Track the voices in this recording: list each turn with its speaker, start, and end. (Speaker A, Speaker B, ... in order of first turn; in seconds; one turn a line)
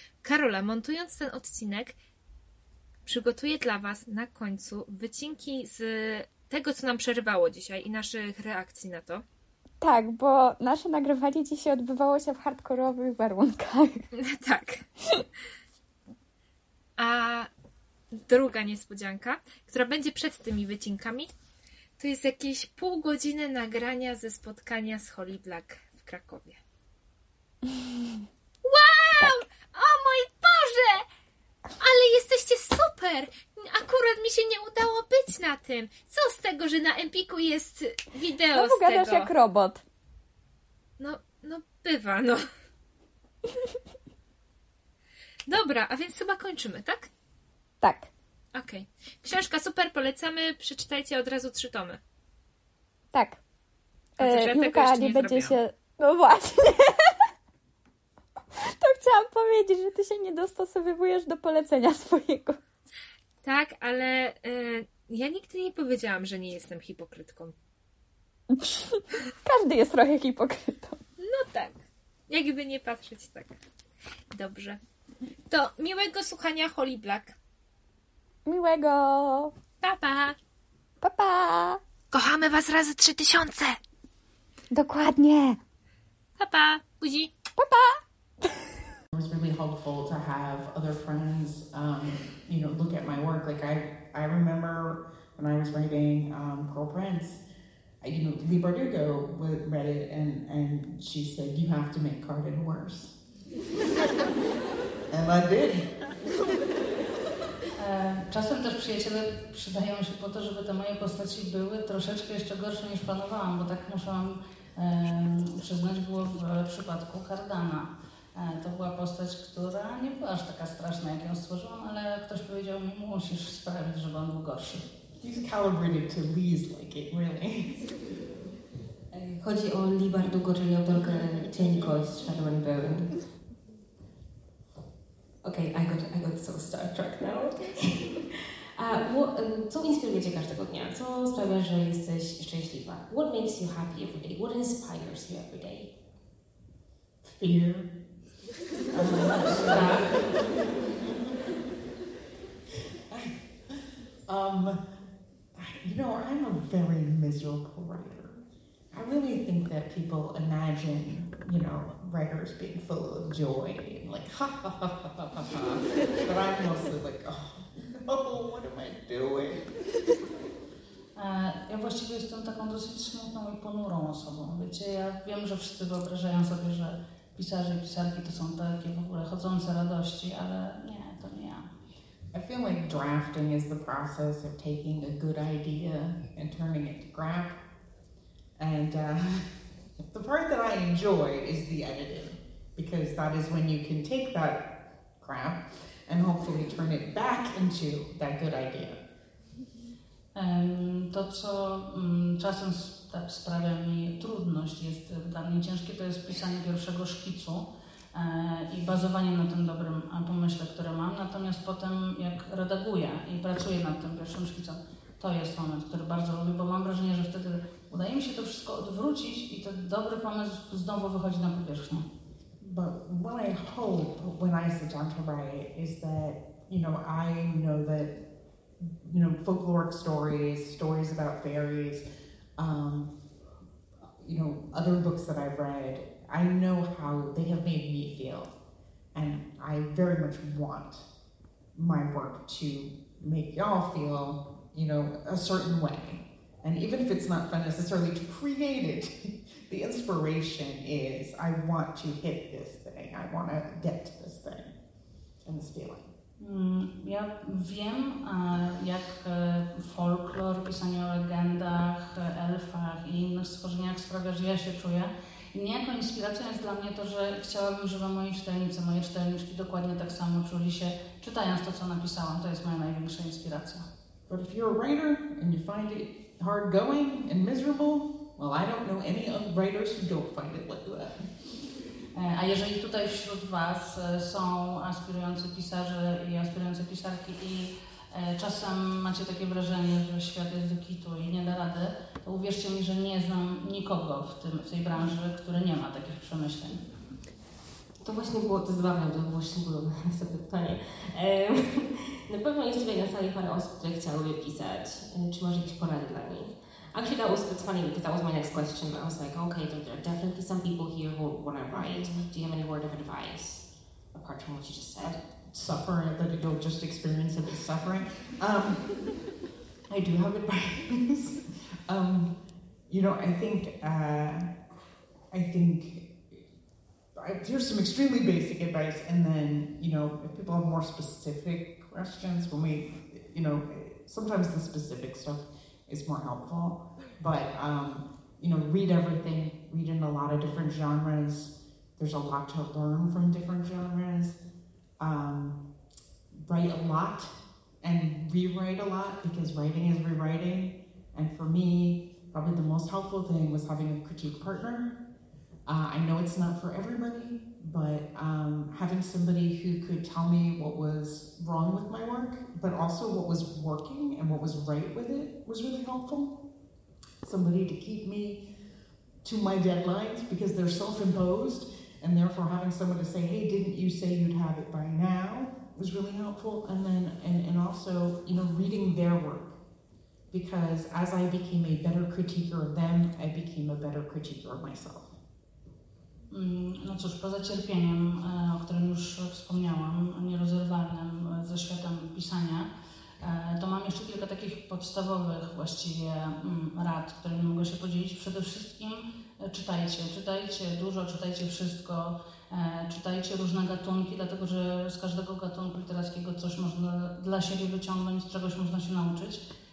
Speaker A: 0.2-1.9
Speaker A: 3.1-9.2
Speaker B: 9.8-14.1
Speaker A: 14.1-14.8
Speaker A: 17.0-17.5
Speaker A: 18.1-21.3
Speaker A: 22.0-26.6
Speaker A: 28.6-31.1
Speaker A: 31.8-39.3
Speaker B: 38.5-39.8
Speaker A: 41.0-42.4
Speaker A: 45.5-47.1
Speaker B: 47.8-48.1
Speaker A: 48.5-52.0
Speaker B: 53.1-53.4
Speaker A: 54.2-55.5
Speaker B: 54.2-57.2
Speaker B: 58.8-62.6
Speaker A: 63.4-67.5
Speaker B: 68.5-71.0
Speaker A: 71.2-73.5
Speaker A: 74.3-74.8
Speaker A: 75.5-77.4
Speaker B: 78.5-79.5
Speaker A: 79.8-80.4
Speaker B: 81.0-81.8
Speaker A: 82.1-83.8
Speaker B: 84.7-85.6
Speaker A: 86.4-87.3
Speaker B: 87.6-88.0
Speaker C: 89.1-97.4
Speaker C: 98.0-103.2
Speaker C: 105.1-105.9
Speaker D: 107.8-124.8
Speaker C: 125.2-127.8
Speaker E: 129.1-133.1
Speaker C: 131.1-131.9
Speaker E: 135.4-145.9
Speaker C: 147.2-147.9
Speaker C: 148.9-150.4
Speaker D: 149.7-150.0
Speaker C: 154.3-154.8
Speaker C: 155.6-158.4
Speaker C: 158.9-169.6
Speaker D: 171.2-181.7
Speaker C: 182.3-187.6
Speaker C: 188.6-189.4
Speaker C: 190.1-199.0
Speaker D: 200.4-222.1
Speaker C: 222.6-228.2
Speaker C: 228.8-232.0
Speaker C: 232.6-233.1
Speaker C: 234.2-238.5
Speaker C: 239.1-241.1
Speaker C: 241.8-254.7
Speaker C: 255.4-256.1
Speaker D: 256.4-273.9
Speaker C: 274.3-281.3
Speaker D: 282.1-296.8
Speaker E: 298.0-315.2
Speaker C: 311.7-312.3
Speaker C: 315.0-318.9
Speaker C: 319.9-322.3
Speaker C: 322.9-324.5
Speaker C: 325.3-326.4
Speaker C: 327.2-344.4
Speaker C: 345.0-345.6
Speaker C: 346.4-354.9
Speaker C: 355.7-366.4
Speaker C: 367.2-368.4
Speaker C: 369.2-379.6
Speaker C: 380.3-385.1
Speaker D: 386.3-392.7
Speaker D: 393.2-409.4